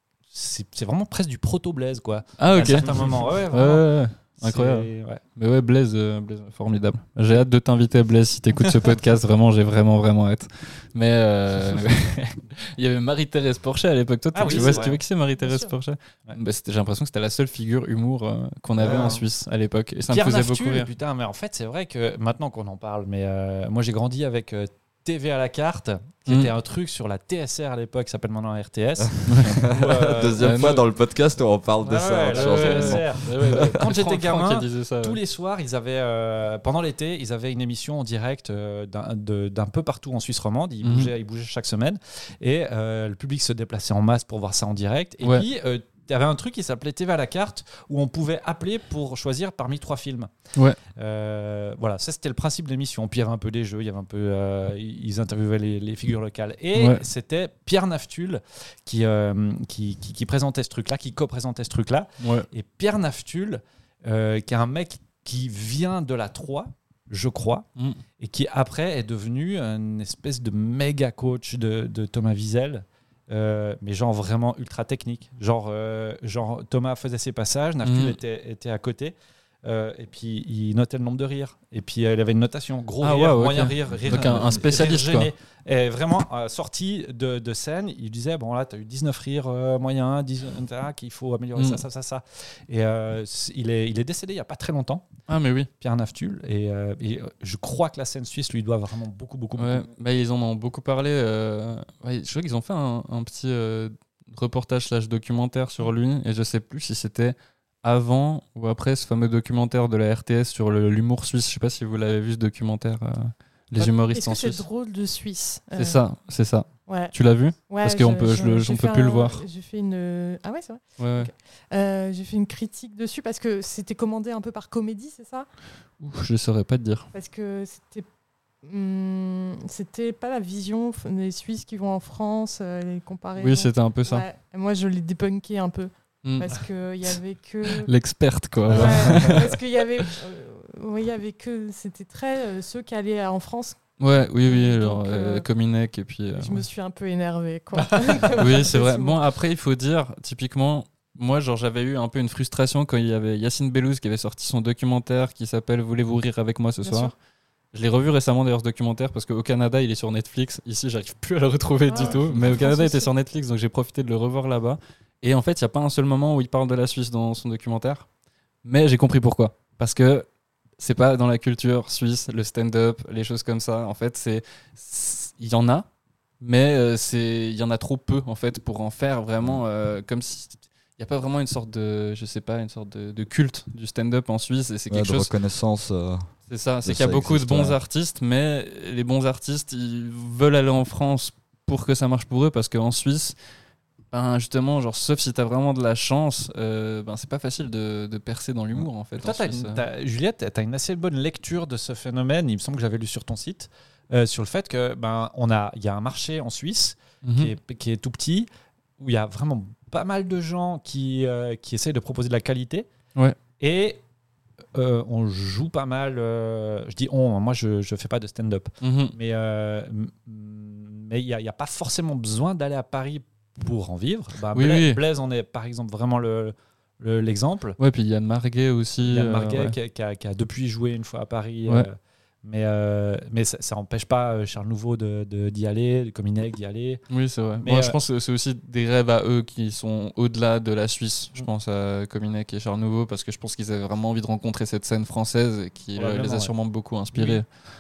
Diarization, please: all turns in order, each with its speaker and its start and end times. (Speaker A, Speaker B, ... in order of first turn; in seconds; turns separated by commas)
Speaker A: 0.3-3.9, Speaker B: 2.4-20.9, Speaker A: 4.4-5.2, Speaker A: 14.3-15.0, Speaker C: 15.4-15.7, Speaker D: 18.8-19.2, Speaker A: 18.8-19.2, Speaker A: 20.1-30.5, Speaker B: 26.3-26.5, Speaker D: 29.0-33.8, Speaker B: 29.3-29.7, Speaker B: 30.4-30.8, Speaker A: 31.8-50.3, Speaker B: 32.3-35.2, Speaker B: 40.8-41.1, Speaker A: 50.9-67.7, Speaker B: 56.7-57.0, Speaker B: 62.2-62.5, Speaker A: 68.2-95.1, Speaker B: 77.8-78.2, Speaker B: 83.0-85.3, Speaker B: 91.5-91.8, Speaker B: 95.3-95.7, Speaker A: 95.8-99.9, Speaker B: 99.6-114.6, Speaker C: 113.8-116.0, Speaker B: 115.8-119.4, Speaker C: 116.9-117.1, Speaker C: 117.7-125.5, Speaker B: 121.0-121.3, Speaker B: 126.0-127.1, Speaker C: 127.1-128.1, Speaker C: 128.6-137.9, Speaker B: 133.4-134.2, Speaker B: 136.2-136.6, Speaker B: 137.7-140.1, Speaker A: 138.7-139.4, Speaker C: 138.7-143.8, Speaker B: 144.0-146.7, Speaker C: 144.4-145.5, Speaker C: 146.3-149.2, Speaker A: 147.8-148.2, Speaker B: 148.3-157.1, Speaker C: 156.8-157.1, Speaker B: 157.7-168.1, Speaker C: 161.9-163.1, Speaker B: 168.6-170.3, Speaker B: 170.8-175.9, Speaker B: 176.4-185.3, Speaker D: 184.9-186.3, Speaker B: 186.5-193.3, Speaker D: 186.8-187.8, Speaker B: 194.1-199.9, Speaker A: 199.2-208.5, Speaker B: 207.2-207.5, Speaker A: 209.0-212.9, Speaker A: 213.6-214.0, Speaker A: 214.8-227.8, Speaker B: 218.8-219.2, Speaker B: 224.5-225.0, Speaker B: 227.8-229.8, Speaker A: 229.1-237.0, Speaker B: 237.1-247.5, Speaker A: 237.6-238.0, Speaker A: 246.0-246.5, Speaker A: 247.1-247.4